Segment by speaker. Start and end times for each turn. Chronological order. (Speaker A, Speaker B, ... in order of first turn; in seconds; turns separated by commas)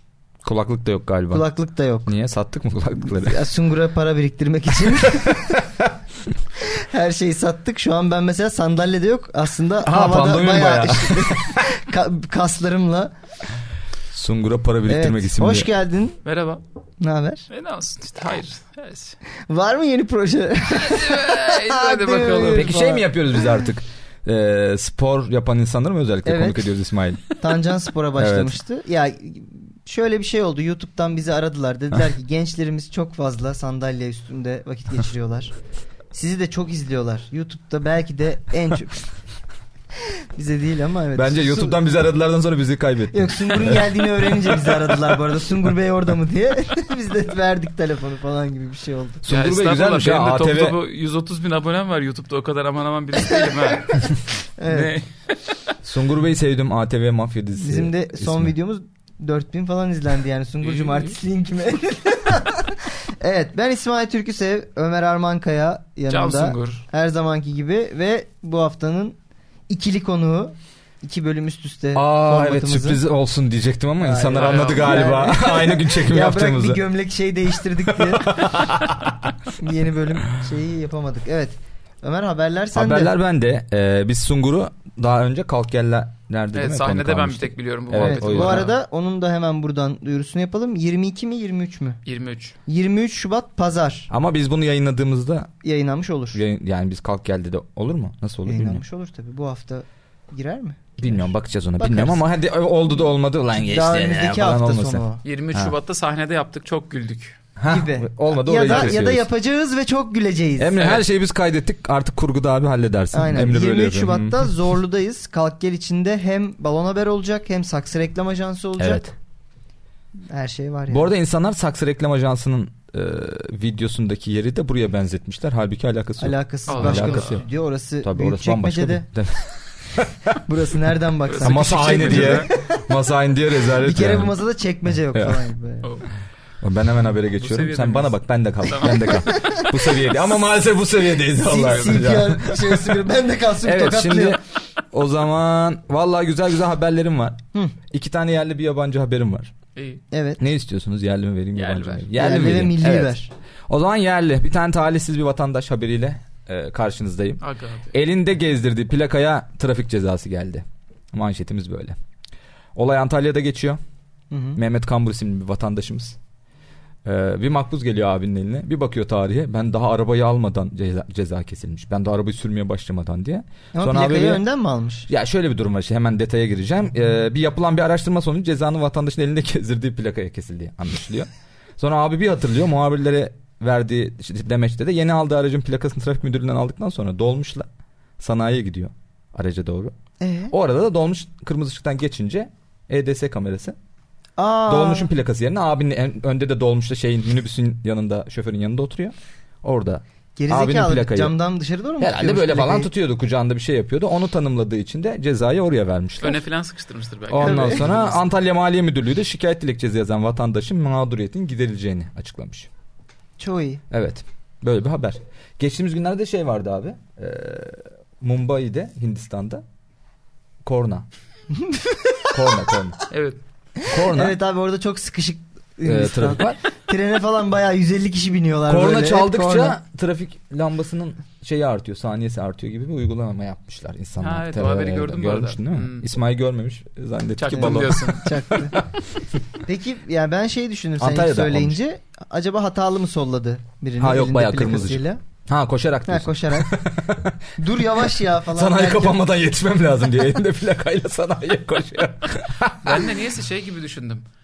Speaker A: 0.4-1.4, Speaker B: 1.3-2.1, Speaker A: 2.0-3.5, Speaker B: 3.0-5.6, Speaker A: 5.0-5.9, Speaker B: 6.6-13.1, Speaker A: 9.8-11.7, Speaker A: 14.1-15.7, Speaker B: 14.9-16.2, Speaker C: 16.2-16.6, Speaker B: 17.0-17.5, Speaker C: 17.5-19.2, Speaker B: 19.5-23.5, Speaker C: 20.7-22.7, Speaker A: 22.5-27.3, Speaker B: 26.2-26.7, Speaker B: 27.4-35.5, Speaker A: 28.1-28.6, Speaker B: 36.1-39.1, Speaker B: 40.3-41.8, Speaker A: 41.1-44.0, Speaker B: 43.1-49.2, Speaker A: 44.5-45.0, Speaker A: 49.2-50.8, Speaker C: 49.3-54.1, Speaker B: 53.3-54.9, Speaker C: 54.7-55.0, Speaker A: 55.8-58.5, Speaker B: 57.6-69.2, Speaker C: 60.6-61.1, Speaker C: 66.1-66.8, Speaker B: 69.7-73.0, Speaker A: 71.9-76.8, Speaker B: 74.0-78.7, Speaker C: 74.3-75.2, Speaker A: 78.0-79.2, Speaker B: 79.6-83.1, Speaker A: 82.7-88.7, Speaker C: 86.5-88.7, Speaker B: 88.0-92.0, Speaker C: 92.0-92.6, Speaker B: 92.7-94.1, Speaker A: 94.1-95.5, Speaker B: 95.6-96.4, Speaker A: 96.3-98.8, Speaker B: 98.5-102.2, Speaker A: 101.0-105.7, Speaker B: 103.6-105.2, Speaker C: 105.2-107.4, Speaker A: 107.6-109.3, Speaker B: 107.7-110.8, Speaker A: 110.6-114.5, Speaker B: 113.1-119.0, Speaker A: 118.8-119.1, Speaker B: 120.3-121.1, Speaker A: 120.9-127.5, Speaker B: 126.2-129.1, Speaker C: 126.7-127.4, Speaker A: 128.0-130.4, Speaker B: 130.4-132.8, Speaker C: 131.3-132.5, Speaker A: 131.4-134.3, Speaker B: 133.8-135.9, Speaker A: 135.1-135.4, Speaker A: 136.6-143.0, Speaker C: 137.4-138.1, Speaker C: 138.7-139.3, Speaker B: 139.1-139.7, Speaker B: 141.3-144.4, Speaker A: 143.6-149.5, Speaker C: 149.8-150.0, Speaker B: 150.1-150.4, Speaker A: 150.4-153.2, Speaker C: 151.5-152.1, Speaker B: 152.1-153.3, Speaker A: 153.7-162.0, Speaker C: 157.4-157.9, Speaker A: 162.8-163.8, Speaker B: 164.3-164.6, Speaker A: 164.6-166.2, Speaker A: 167.0-174.4, Speaker B: 173.7-175.1, Speaker A: 175.1-189.9, Speaker B: 190.2-190.5, Speaker A: 190.5-193.8, Speaker B: 194.4-195.1, Speaker A: 194.7-201.3, Speaker B: 200.3-202.9, Speaker A: 202.0-206.4, Speaker C: 206.2-208.2, Speaker A: 207.3-212.7, Speaker B: 207.4-207.8, Speaker B: 213.4-213.8, Speaker A: 213.9-219.6, Speaker A: 220.6-221.1, Speaker B: 221.5-222.3, Speaker A: 222.3-223.0, Speaker C: 223.1-223.4, Speaker B: 223.8-229.8, Speaker A: 223.9-224.4, Speaker A: 225.8-226.6, Speaker A: 228.7-238.8, Speaker C: 234.2-236.1, Speaker C: 237.4-238.2, Speaker B: 237.6-238.8, Speaker B: 239.6-245.2, Speaker A: 241.0-241.8, Speaker A: 244.0-247.7, Speaker B: 246.1-246.7, Speaker B: 247.6-249.2, Speaker A: 248.5-253.1, Speaker C: 252.8-254.2